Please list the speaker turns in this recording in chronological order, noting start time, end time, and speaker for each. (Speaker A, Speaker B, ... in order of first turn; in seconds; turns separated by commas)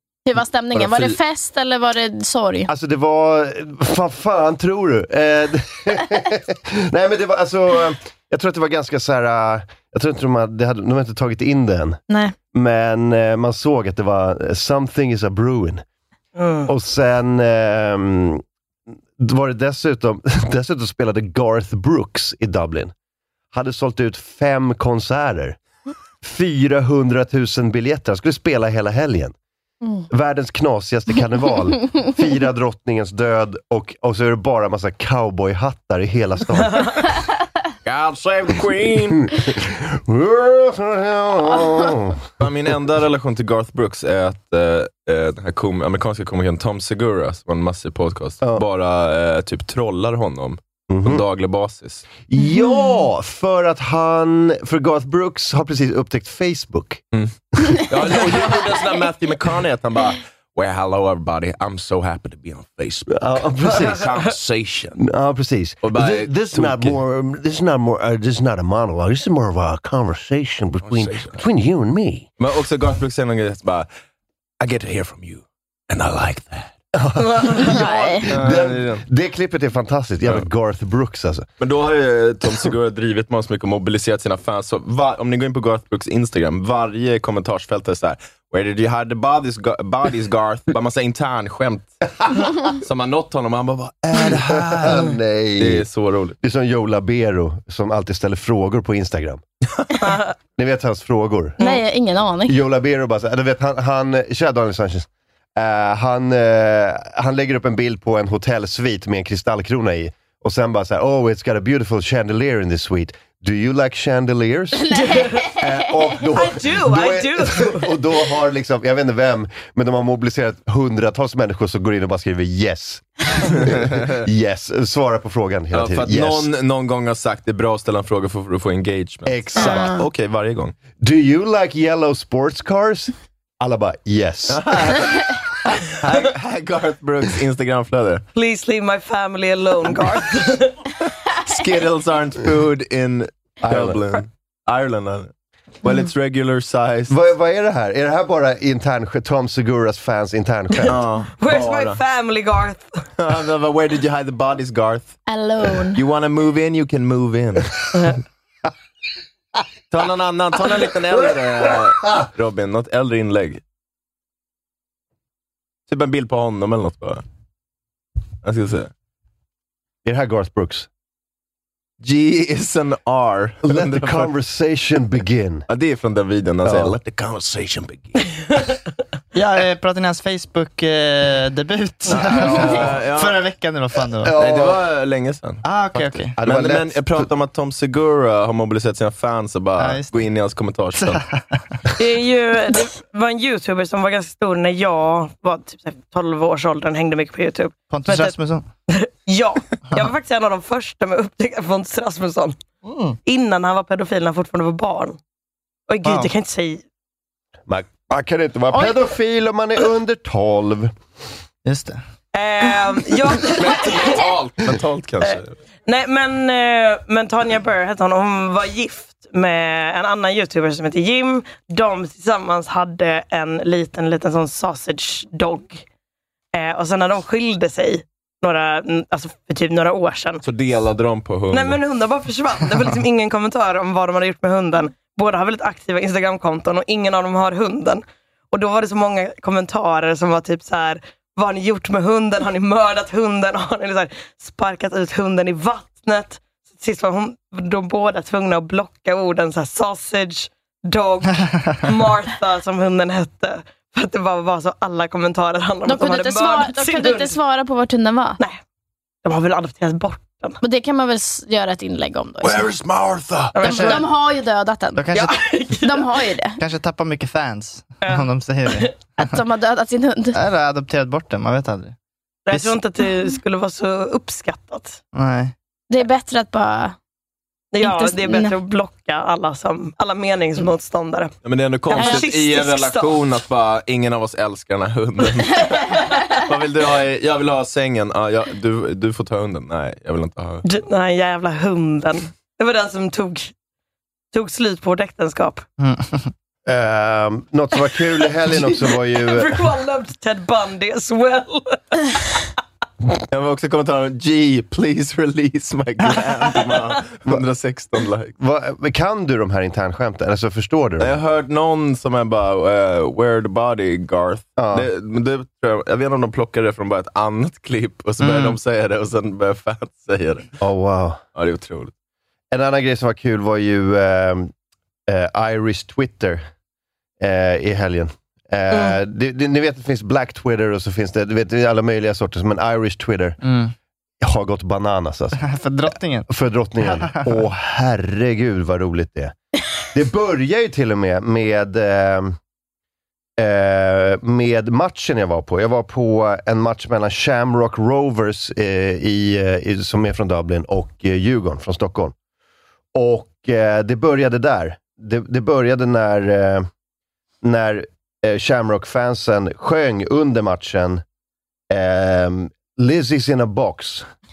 Speaker A: 0.3-2.7, Speaker B: 2.7-12.0, Speaker A: 12.1-12.3, Speaker B: 12.5-15.8, Speaker C: 16.4-16.7, Speaker B: 16.7-18.4, Speaker B: 19.2-22.9, Speaker B: 23.5-25.6, Speaker B: 26.2-29.4, Speaker B: 30.1-37.1, Speaker D: 37.8-39.3, Speaker B: 39.2-42.3, Speaker D: 42.4-52.1, Speaker B: 50.9-51.2, Speaker B: 52.3-57.0, Speaker A: 52.5-52.9, Speaker D: 57.1-65.0, Speaker B: 63.1-64.2, Speaker B: 65.0-72.3, Speaker D: 65.8-67.0, Speaker D: 70.8-71.4, Speaker D: 72.4-73.9, Speaker D: 74.6-76.7, Speaker B: 76.9-81.5, Speaker C: 77.2-77.7, Speaker A: 77.6-78.3, Speaker D: 77.8-79.0, Speaker D: 81.6-91.9, Speaker D: 92.7-96.4, Speaker B: 94.1-95.8, Speaker B: 96.4-99.4, Speaker C: 100.0-100.3, Speaker B: 100.6-101.6, Speaker A: 101.6-102.6, Speaker B: 102.5-126.5, Speaker A: 114.8-115.7, Speaker C: 115.1-115.4, Speaker C: 116.3-117.9, Speaker D: 123.5-124.3, Speaker D: 125.7-130.8, Speaker B: 129.3-130.0, Speaker B: 131.0-134.8, Speaker D: 134.5-138.2, Speaker C: 138.3-140.8, Speaker D: 141.4-145.3, Speaker B: 143.6-144.1, Speaker D: 145.8-147.2, Speaker B: 147.1-151.0, Speaker D: 150.9-152.0, Speaker C: 151.4-153.0, Speaker D: 153.2-155.2, Speaker A: 155.3-156.0, Speaker D: 155.9-157.9, Speaker D: 159.9-163.6, Speaker D: 165.9-167.2, Speaker D: 168.4-168.9, Speaker B: 170.1-170.9, Speaker D: 172.0-174.3, Speaker B: 173.6-175.7, Speaker D: 175.7-178.2, Speaker B: 176.6-177.0, Speaker E: 179.3-184.4, Speaker D: 182.1-183.4, Speaker B: 184.2-184.9, Speaker D: 184.3-191.2, Speaker E: 185.6-186.3, Speaker B: 186.4-187.3, Speaker E: 189.8-190.2, Speaker E: 191.0-191.8, Speaker C: 192.0-198.3, Speaker E: 197.9-198.7, Speaker C: 198.9-202.6, Speaker E: 202.8-203.2, Speaker C: 203.2-205.2, Speaker C: 205.9-206.8, Speaker B: 207.7-210.9, Speaker E: 211.7-212.0, Speaker C: 212.3-214.3, Speaker D: 213.6-215.6, Speaker C: 215.2-225.8, Speaker C: 226.6-230.4, Speaker D: 230.4-231.8, Speaker C: 231.5-257.4, Speaker A: 255.8-258.4, Speaker C: 259.2-260.6, Speaker A: 260.6-262.8, Speaker D: 262.4-263.5, Speaker C: 263.6-264.1, Speaker A: 263.6-265.0, Speaker E: 263.6-264.0, Speaker E: 265.0-265.4, Speaker C: 265.1-266.2, Speaker A: 265.8-266.6, Speaker E: 266.6-269.2, Speaker C: 268.0-268.9, Speaker A: 269.2-270.4, Speaker E: 270.3-272.0, Speaker C: 272.5-275.0, Speaker E: 275.1-275.5, Speaker A: 275.9-276.9, Speaker C: 277.7-281.3, Speaker A: 277.8-278.6, Speaker D: 281.4-290.6, Speaker C: 281.9-283.4, Speaker A: 281.9-282.3, Speaker C: 290.7-293.5, Speaker C: 294.3-295.6, Speaker E: 295.8-296.3, Speaker B: 296.7-299.6, Speaker C: 298.6-302.5, Speaker D: 303.3-308.3, Speaker B: 308.4-311.2, Speaker D: 311.0-320.5, Speaker B: 314.6-314.9, Speaker E: 318.2-318.6, Speaker B: 320.6-321.2, Speaker D: 321.4-321.9, Speaker B: 322.5-324.5, Speaker B: 325.1-326.4, Speaker B: 327.2-333.4, Speaker C: 328.7-329.0, Speaker E: 333.4-333.7, Speaker B: 334.2-335.4, Speaker E: 335.4-336.3, Speaker B: 336.3-339.4, Speaker E: 336.8-337.4, Speaker B: 339.9-342.4, Speaker B: 343.4-352.1, Speaker B: 352.9-356.7, Speaker B: 357.4-361.0, Speaker B: 361.7-364.1